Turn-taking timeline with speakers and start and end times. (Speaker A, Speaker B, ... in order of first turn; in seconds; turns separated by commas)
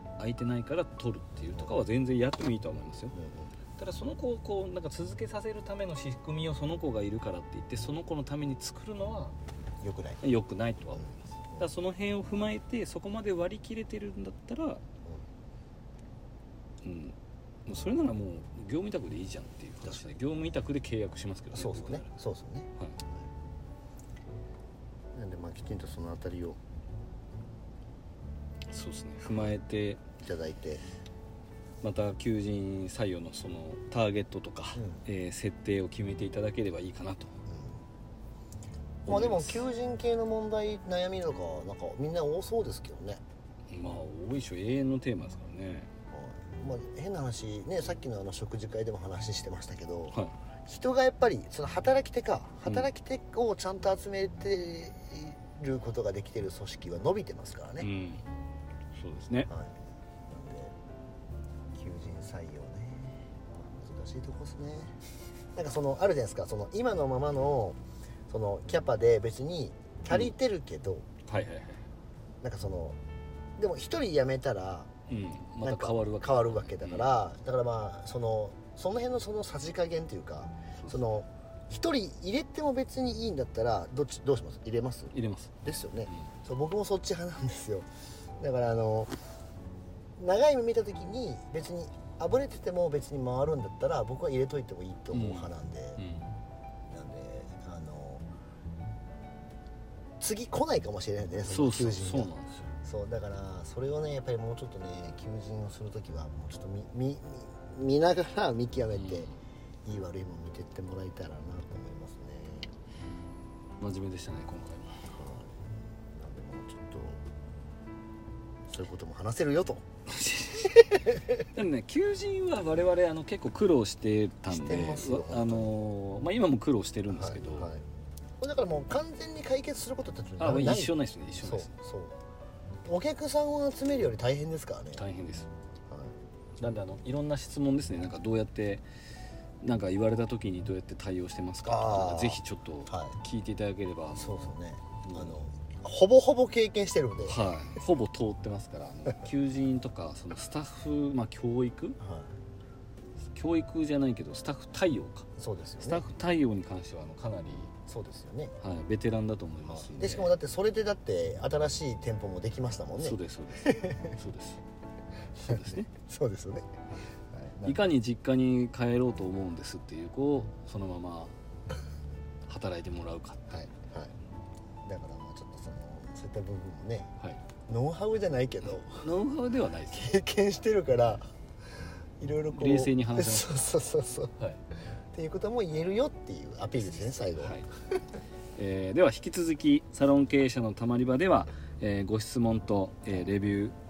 Speaker A: 0.2-3.1, Speaker B: 3.1-3.5, Speaker A: 3.8-9.3, Speaker B: 9.8-10.2, Speaker A: 10.2-14.8, Speaker B: 10.9-11.7, Speaker A: 16.8-22.1, Speaker B: 21.5-22.7, Speaker B: 25.1-26.6, Speaker A: 28.7-30.0, Speaker B: 29.2-29.5, Speaker B: 30.2-30.8, Speaker A: 31.8-37.3, Speaker B: 34.8-35.0, Speaker B: 37.5-37.8, Speaker A: 39.0-39.6, Speaker B: 39.1-43.2, Speaker A: 43.7-45.9, Speaker B: 46.1-57.9, Speaker A: 57.8-58.2, Speaker A: 58.9-59.5, Speaker B: 59.5-59.7, Speaker B: 60.3-60.7, Speaker B: 61.7-65.0, Speaker B: 65.5-67.8, Speaker B: 68.3-71.0, Speaker A: 71.3-71.8, Speaker B: 72.4-73.0, Speaker B: 73.6-74.9, Speaker A: 75.1-77.1, Speaker B: 75.6-85.1, Speaker A: 85.1-86.2, Speaker B: 85.6-87.8, Speaker B: 88.4-89.1, Speaker B: 90.2-96.0, Speaker A: 95.1-96.3, Speaker B: 96.9-98.2, Speaker B: 100.2-109.3, Speaker A: 101.5-102.7, Speaker A: 108.9-109.3, Speaker B: 109.8-112.7, Speaker A: 113.8-115.1, Speaker B: 115.1-117.2, Speaker B: 118.7-119.8, Speaker A: 120.1-127.7, Speaker B: 120.8-121.2, Speaker B: 124.5-125.7, Speaker B: 127.1-127.8, Speaker B: 128.4-132.2, Speaker A: 130.4-131.7, Speaker B: 132.8-135.0, Speaker A: 134.9-135.5, Speaker A: 136.6-138.8, Speaker A: 139.6-144.3, Speaker B: 141.6-143.2, Speaker B: 144.1-147.4, Speaker A: 145.0-145.5, Speaker A: 147.2-152.0, Speaker B: 152.0-152.3, Speaker A: 153.3-155.3, Speaker B: 155.4-156.0, Speaker A: 155.8-157.7, Speaker B: 157.9-158.5, Speaker A: 158.6-160.3, Speaker B: 159.6-164.1, Speaker A: 163.0-164.6, Speaker A: 165.4-165.9, Speaker B: 165.4-166.6, Speaker B: 167.3-167.8, Speaker A: 167.6-171.3, Speaker A: 172.5-173.7, Speaker B: 173.5-174.1, Speaker B: 174.8-177.1, Speaker B: 177.7-179.1, Speaker A: 178.6-180.2, Speaker B: 179.9-181.2, Speaker B: 182.2-184.3, Speaker A: 182.5-183.6, Speaker B: 185.1-187.6, Speaker A: 187.1-187.7, Speaker A: 188.6-193.7